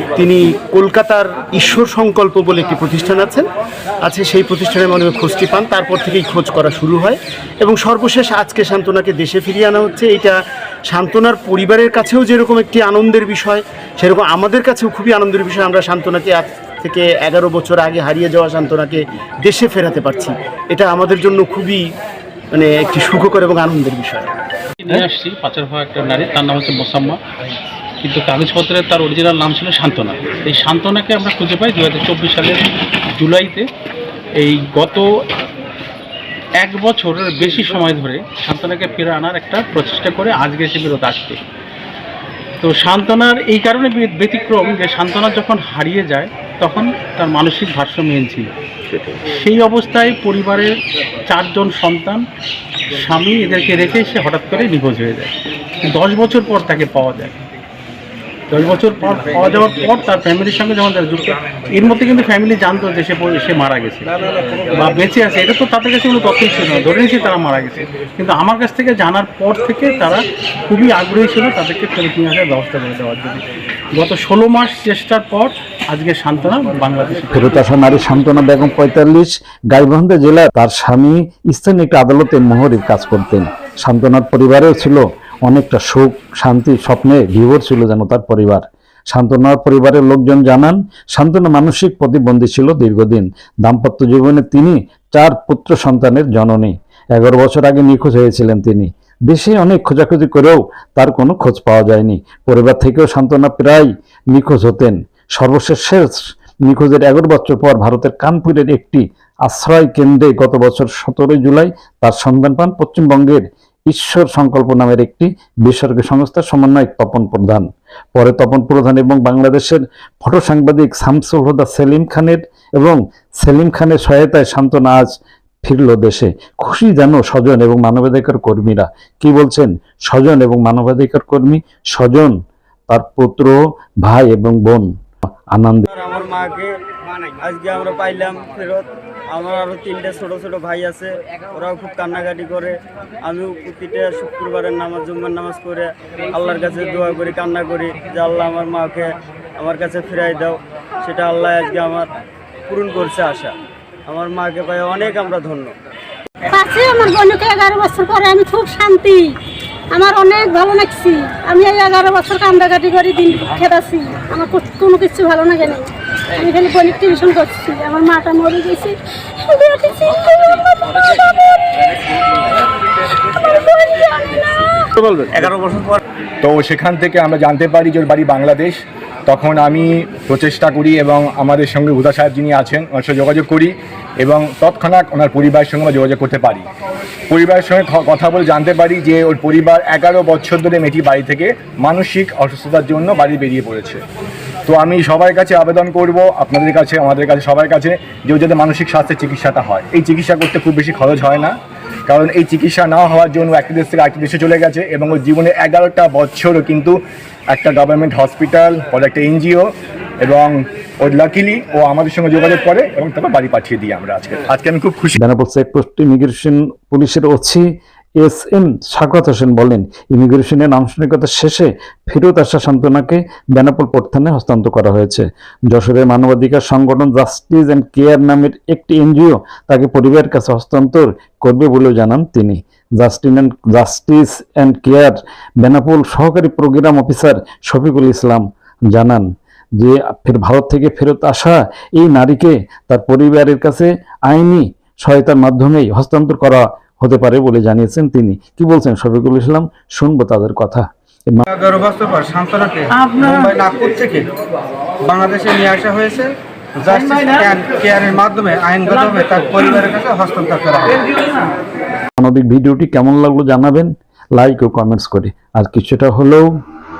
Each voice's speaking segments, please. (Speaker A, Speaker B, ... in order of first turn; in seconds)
Speaker A: 0.1-3.5, 4.0-10.3, 10.9-21.8, 22.5-24.3, 174.9-176.0
Speaker B: 24.8-27.2, 28.0-32.6, 33.1-33.6, 34.4-35.1, 36.6-41.4, 42.6-50.7, 51.3-52.2, 52.9-57.4, 58.5-64.1, 64.7-77.5
Speaker C: 77.3-125.1, 125.6-132.3, 132.9-134.9, 135.5-135.9, 215.2-217.6, 218.2-239.3, 239.8-251.4, 262.2-266.5
Speaker D: 135.9-153.5, 154.1-155.7
Speaker E: 156.5-159.3, 159.9-171.4, 173.2-174.9
Speaker F: 176.4-186.7, 187.3-194.0, 194.7-201.5, 202.1-207.0, 207.5-209.7, 210.2-215.2
Speaker G: 251.5-254.3, 255.0-261.1